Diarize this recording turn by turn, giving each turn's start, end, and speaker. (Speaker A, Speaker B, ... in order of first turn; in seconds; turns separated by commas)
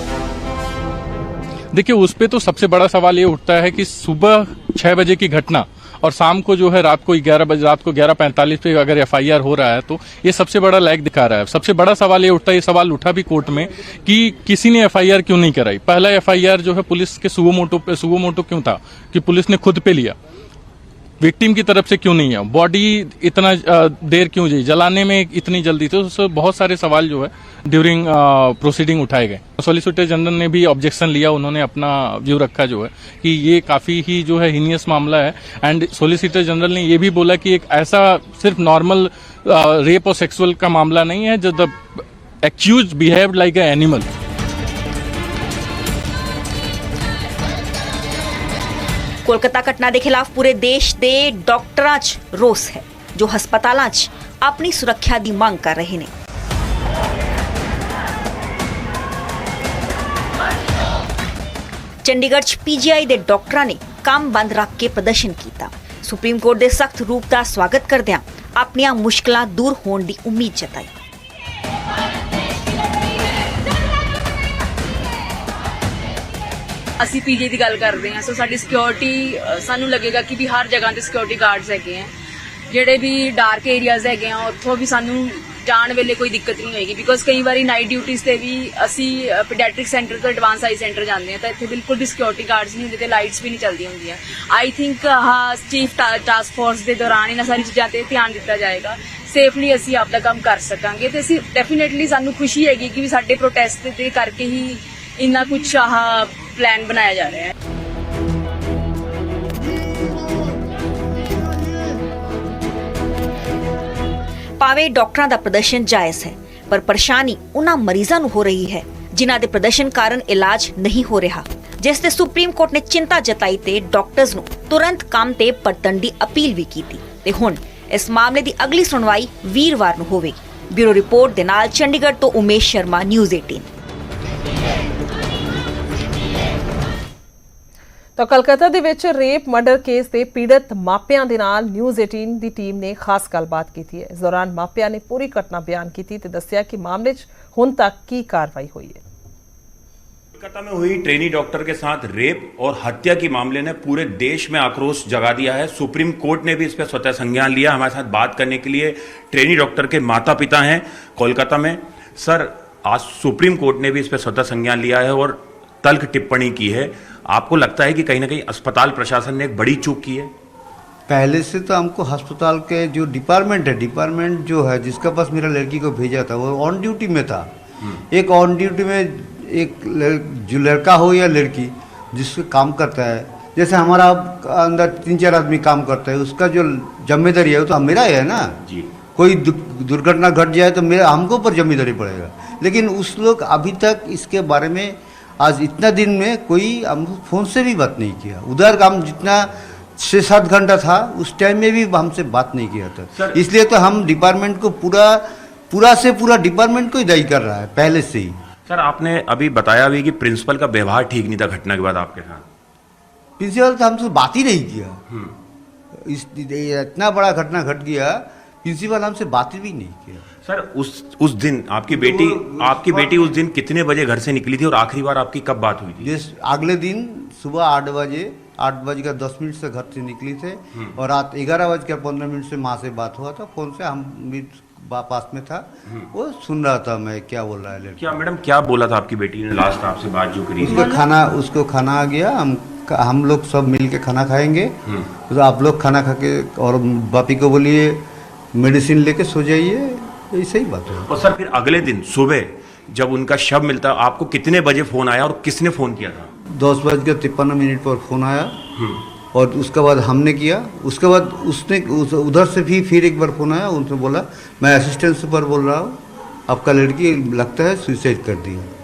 Speaker A: 1.7-20.1, Speaker A: 21.2-44.1, Speaker B: 49.2-56.1, Speaker B: 62.0-70.9, Speaker C: 77.0-82.1, Speaker C: 82.7-107.5, Speaker B: 114.6-133.7, Speaker D: 138.2-149.0, Speaker E: 150.3-170.3, Speaker F: 171.1-177.5, Speaker F: 178.1-188.6, Speaker F: 189.2-208.4, Speaker E: 208.7-212.4, Speaker F: 213.4-215.0, Speaker F: 215.9-220.2, Speaker E: 220.4-226.1, Speaker F: 221.9-223.3, Speaker F: 226.0-238.2, Speaker E: 238.0-240.9, Speaker F: 240.6-244.8, Speaker F: 245.3-251.1, Speaker E: 251.1-256.3, Speaker F: 256.4-258.6, Speaker F: 259.3-268.7